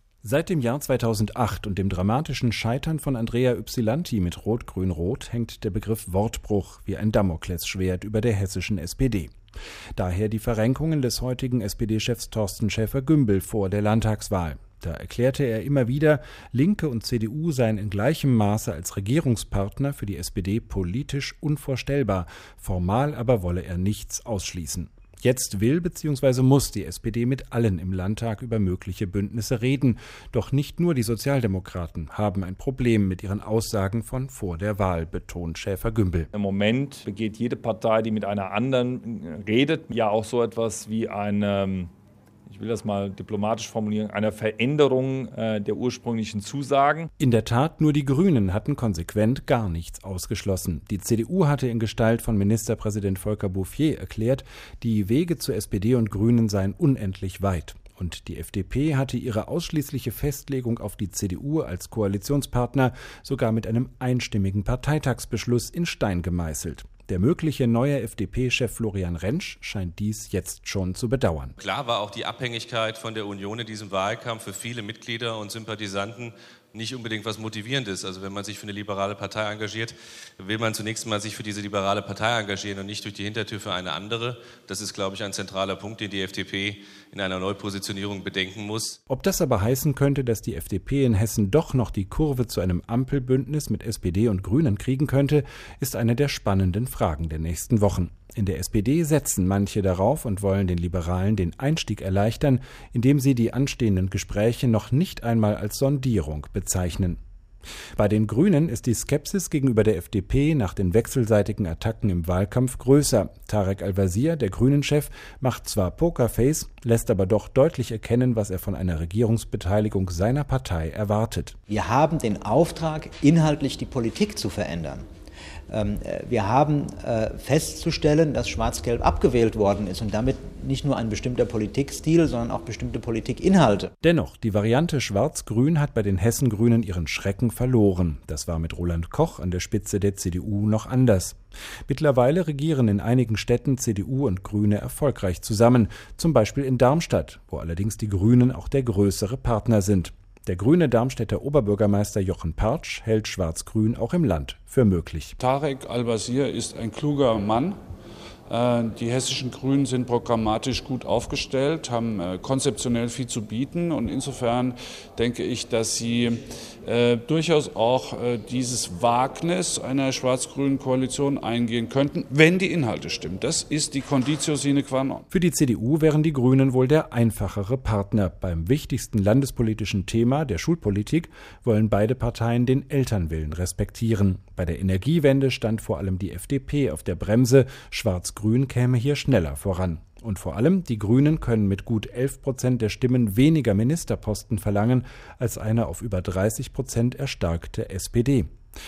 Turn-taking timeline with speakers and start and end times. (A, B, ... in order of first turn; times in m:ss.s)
0:00.2-0:09.3 A
0:09.9-0:36.3 A
0:36.3-0:41.9 B
0:42.4-0:47.1 B
0:47.2-1:11.6 A
1:11.6-1:29.0 C
1:29.1-1:47.2 A
1:48.0-2:01.6 A
2:01.7-2:05.1 D
2:05.7-2:13.9 D
2:14.0-2:35.3 A
2:35.4-2:37.8 E
2:38.5-2:55.2 E
2:55.3-3:18.5 A